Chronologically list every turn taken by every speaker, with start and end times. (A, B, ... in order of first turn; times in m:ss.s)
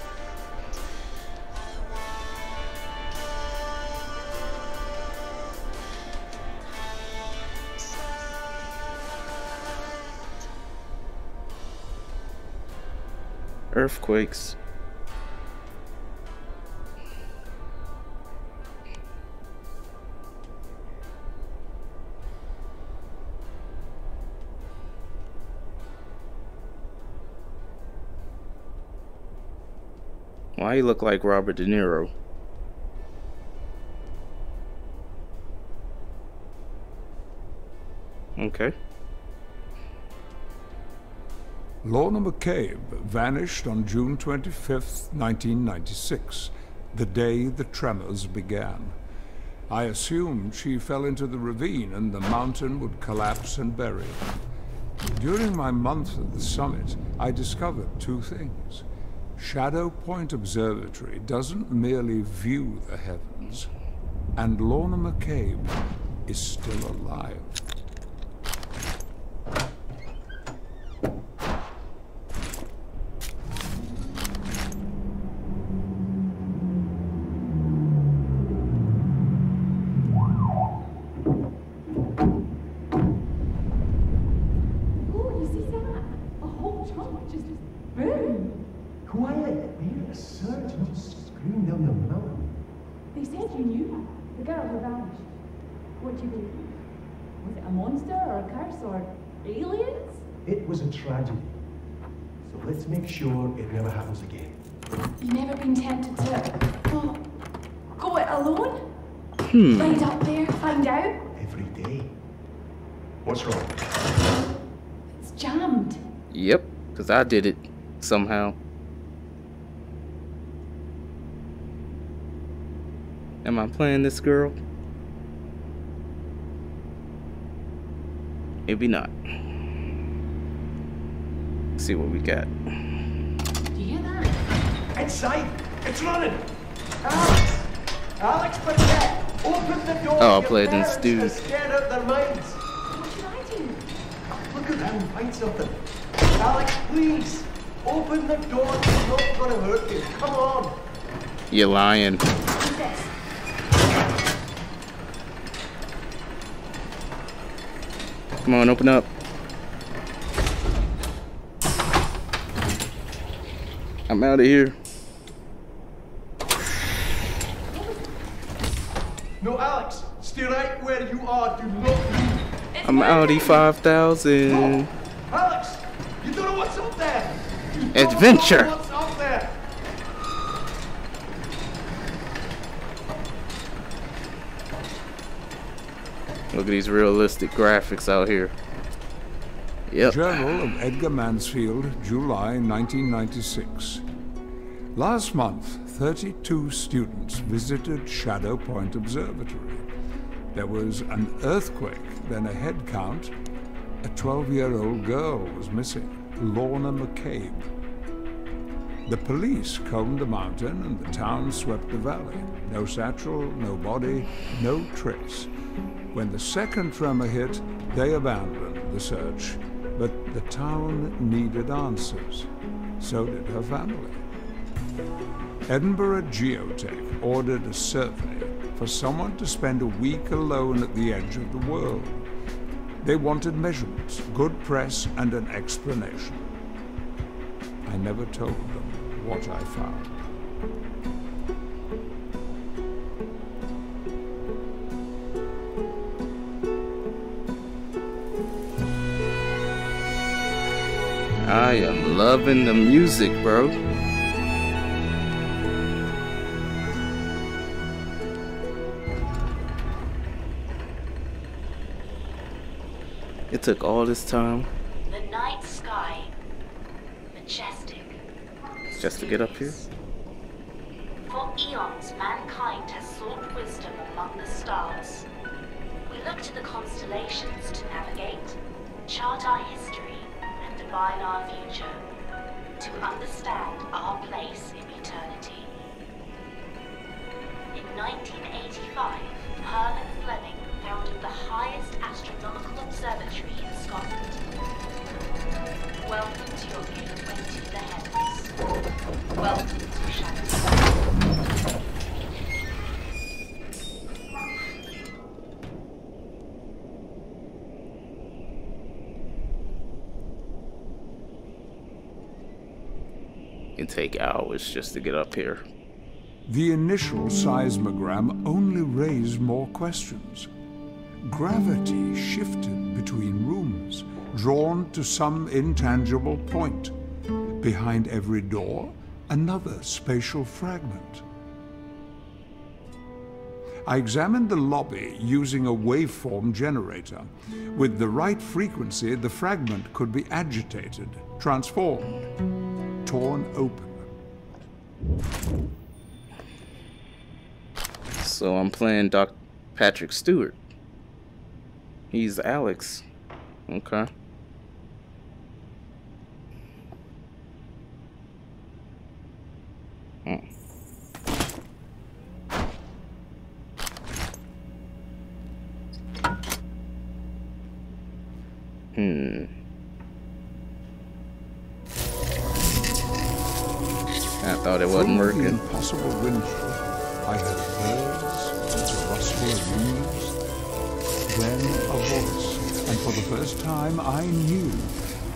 0:13.7-0:14.6 A
0:30.6-0:32.1 A
0:38.4-0:38.8 A
0:41.8-0:49.0 B
0:49.7-0:54.3 B
0:55.0-1:03.7 B
1:04.4-1:05.7 B
1:06.3-1:07.6 B
1:25.1-1:28.6 C
1:29.0-1:32.5 D
1:33.1-1:35.4 C
1:36.0-1:36.8 C
1:37.4-1:40.2 C
1:40.4-1:41.6 D
1:42.4-1:44.6 D
1:45.2-1:47.2 C
1:48.0-1:48.9 C
1:49.4-1:50.1 A
1:49.8-1:51.2 C
1:51.4-1:52.1 D
1:53.2-1:53.8 D
1:55.1-1:56.0 C
1:56.3-1:58.6 A
2:03.4-2:04.6 A
2:08.7-2:09.1 A
2:11.8-2:12.5 A
2:13.7-2:14.4 C
2:14.9-2:16.5 D
2:17.0-2:17.6 D
2:18.2-2:22.6 D
2:20.2-2:21.4 A
2:22.9-2:23.8 C
2:24.4-2:25.8 D
2:26.3-2:30.8 D
2:31.5-2:32.2 A
2:32.5-2:33.1 C
2:38.4-2:39.1 A
2:44.1-2:44.8 A
2:49.4-2:52.4 D
2:52.8-2:53.6 C
2:52.8-2:54.9 A
2:54.5-2:59.6 D
2:57.9-2:58.7 A
3:06.5-3:08.5 A
3:09.9-3:10.5 A
3:10.0-3:14.0 B
3:15.0-3:19.9 B
3:20.5-3:23.3 B
3:24.0-3:27.7 B
3:29.1-3:35.5 B
3:36.1-3:44.2 B
3:45.7-3:52.3 B
3:53.0-3:56.5 B
3:57.9-4:00.2 B
4:11.4-4:13.8 A
4:23.5-4:24.7 A
4:25.1-4:26.3 E
4:27.3-4:28.2 E
4:28.9-4:29.8 E
4:29.0-4:29.9 A
4:31.3-4:35.3 E
4:36.1-4:42.0 E
4:42.8-4:45.7 E
4:47.7-4:54.4 E
4:56.0-4:58.5 E
4:59.4-5:00.8 E
5:13.8-5:15.6 A
5:16.5-5:20.5 B
5:21.2-5:26.9 B
5:27.6-5:31.2 B
5:33.8-5:42.1 B
5:43.0-5:44.1 B
5:48.2-5:50.6 A
5:52.1-5:53.0 A
5:53.7-5:54.1 A
6:09.0-6:09.5 A
6:14.4-6:15.6 A
6:14.9-6:20.4 B
6:21.3-6:25.0 B